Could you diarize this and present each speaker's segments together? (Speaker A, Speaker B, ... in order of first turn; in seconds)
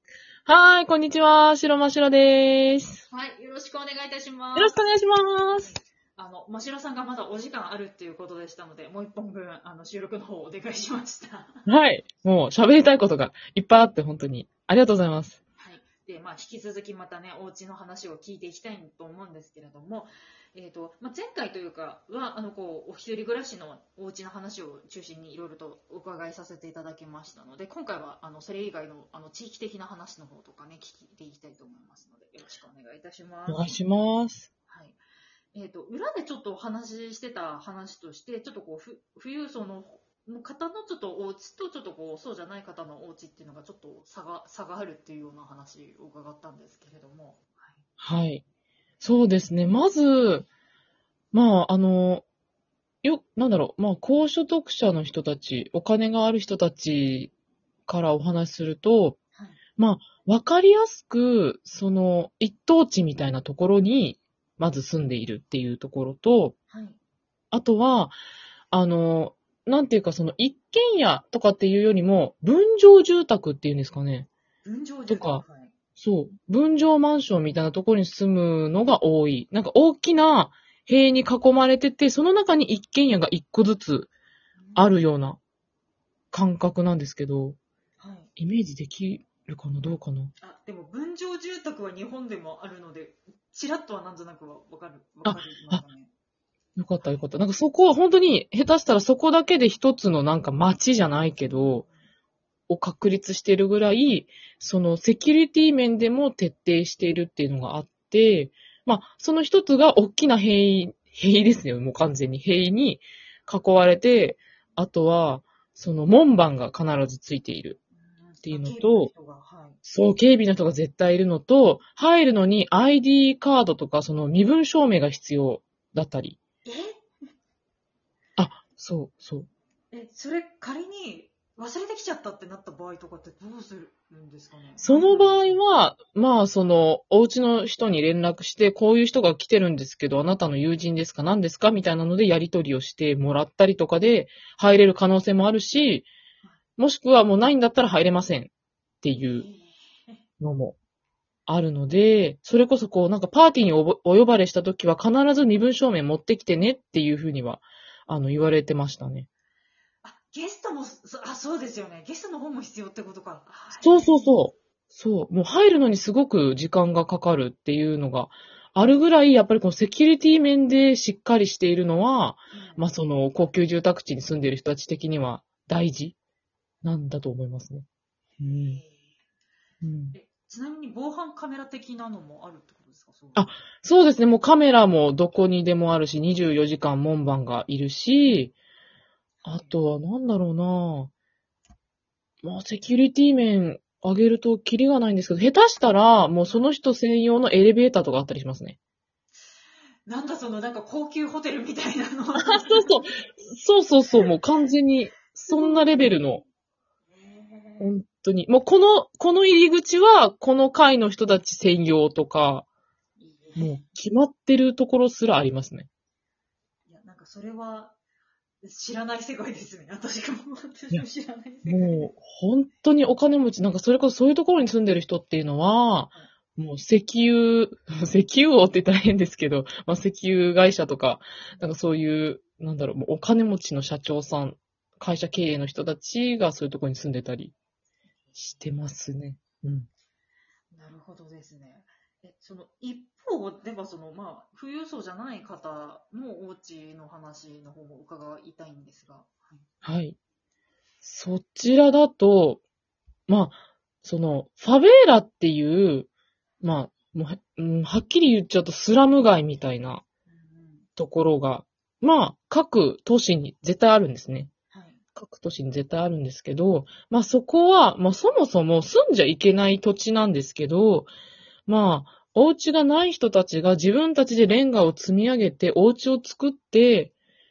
Speaker A: 0.5-3.0, 4.5-5.7, 11.7-15.4, 33.5-34.5, 48.0-48.4, 49.0-50.5, 51.3-52.2, 53.0-57.3, 57.9-59.2, 59.8-66.5, 67.5-68.2, 68.7-74.3, 75.1-75.4, 76.0-84.1, 84.8-85.4, 86.3-87.6, 88.4-90.3, 95.2-95.8, 96.8-101.8, 102.7-117.8, 118.4-119.1, 119.8-126.4, 128.4-129.5, 134.8-146.1, 146.8-148.5, 149.0-149.4, 150.4-150.8, 151.5-159.3, 163.8-176.1, 176.8-177.8, 178.4-178.8, 179.8-180.2, 183.3-188.5, 189.4-191.1, 192.4-198.8, 202.4-206.4, 207.8-212.6, 213.6-215.9, 221.7-237.5, 238.4-239.9, 249.8-250.2, 251.0-252.6, 253.3-256.1, 256.6-260.0, 261.0-264.5, 265.1-271.1, 271.7-277.1
Speaker B: 3.1-4.8, 6.2-11.6, 15.6-33.8, 34.7-35.0, 35.5-47.8, 59.3-59.6, 66.7-67.0, 74.6-75.7, 84.6-84.9, 88.0-88.3, 90.4-96.1, 101.6-101.9, 118.0-119.8, 126.6-127.0, 129.9-135.6, 149.2-150.2, 160.0-164.3, 172.5-172.8, 178.5-179.2, 180.1-183.5, 189.4-189.8, 200.1-203.1, 205.5-206.1, 207.1-207.9, 213.2-213.8, 216.9-217.9, 218.6-222.1, 238.2-238.7, 240.7-249.6, 260.3-260.9, 264.7-265.0